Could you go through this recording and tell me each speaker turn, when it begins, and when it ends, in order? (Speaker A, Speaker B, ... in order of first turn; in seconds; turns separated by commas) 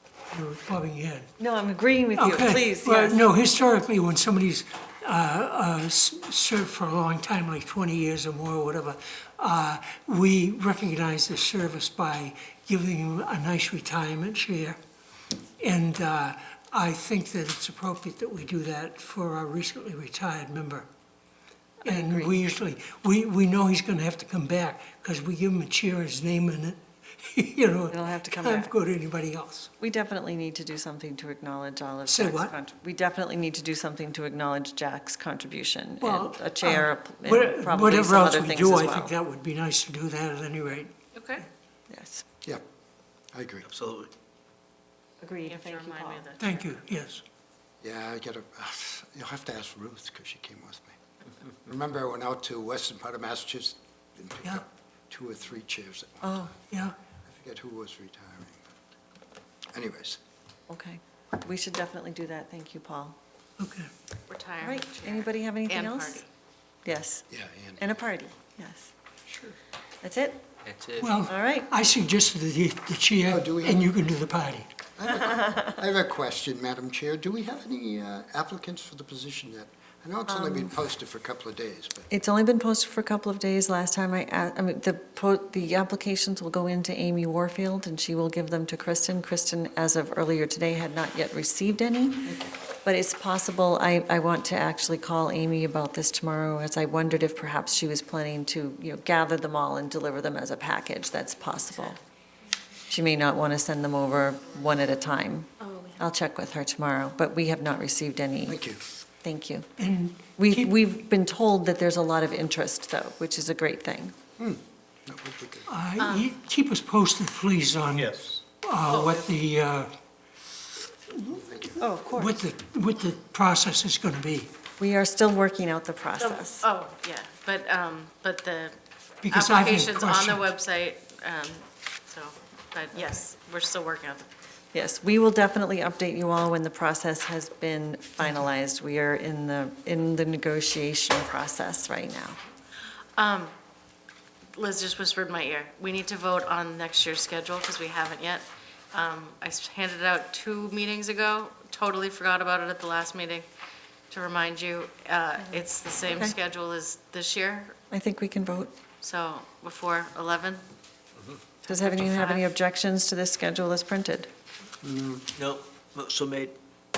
Speaker A: 0.3-1.3, Speaker B: 1.4-3.2, Speaker A: 2.1-14.8, Speaker A: 15.6-20.9, Speaker B: 21.8-22.3, Speaker A: 21.8-29.7, Speaker B: 27.9-28.7, Speaker B: 29.8-39.1, Speaker A: 32.1-32.5, Speaker A: 36.0-40.9, Speaker C: 41.1-41.4, Speaker B: 41.9-42.2, Speaker D: 43.3-43.7, Speaker E: 43.6-44.1, Speaker B: 45.2-46.3, Speaker C: 45.4-46.7, Speaker A: 46.4-47.2, Speaker D: 47.8-50.9, Speaker D: 51.6-58.6, Speaker B: 56.2-56.5, Speaker D: 59.7-60.2, Speaker B: 60.7-63.2, Speaker A: 63.6-63.9, Speaker C: 64.3-66.3, Speaker B: 64.6-66.2, Speaker B: 66.8-68.9, Speaker D: 67.3-68.0, Speaker D: 69.3-69.5, Speaker B: 70.0-70.4, Speaker A: 71.0-74.7, Speaker B: 71.2-71.7, Speaker D: 73.3-73.9, Speaker D: 75.0-82.1, Speaker B: 80.3-80.7, Speaker B: 82.1-102.0, Speaker B: 102.9-108.6, Speaker C: 105.6-106.0, Speaker D: 108.5-108.8, Speaker B: 109.2-109.7, Speaker A: 109.8-110.7, Speaker B: 110.4-114.2, Speaker D: 114.4-115.7, Speaker A: 115.7-119.9, Speaker C: 116.0-116.3, Speaker E: 117.9-118.4, Speaker C: 118.8-119.3, Speaker A: 121.1-121.4, Speaker D: 121.2-121.8, Speaker B: 121.8-122.5, Speaker A: 122.1-124.5, Speaker B: 124.8-126.7, Speaker C: 126.2-128.8, Speaker A: 129.2-130.4, Speaker C: 129.3-134.3, Speaker B: 134.7-142.4, Speaker C: 143.2-143.5, Speaker C: 144.5-153.4, Speaker C: 154.1-157.8, Speaker B: 155.4-156.3, Speaker B: 157.9-158.7, Speaker C: 159.0-160.6, Speaker B: 161.7-164.3, Speaker C: 161.7-162.5, Speaker D: 164.8-165.3, Speaker E: 165.3-166.6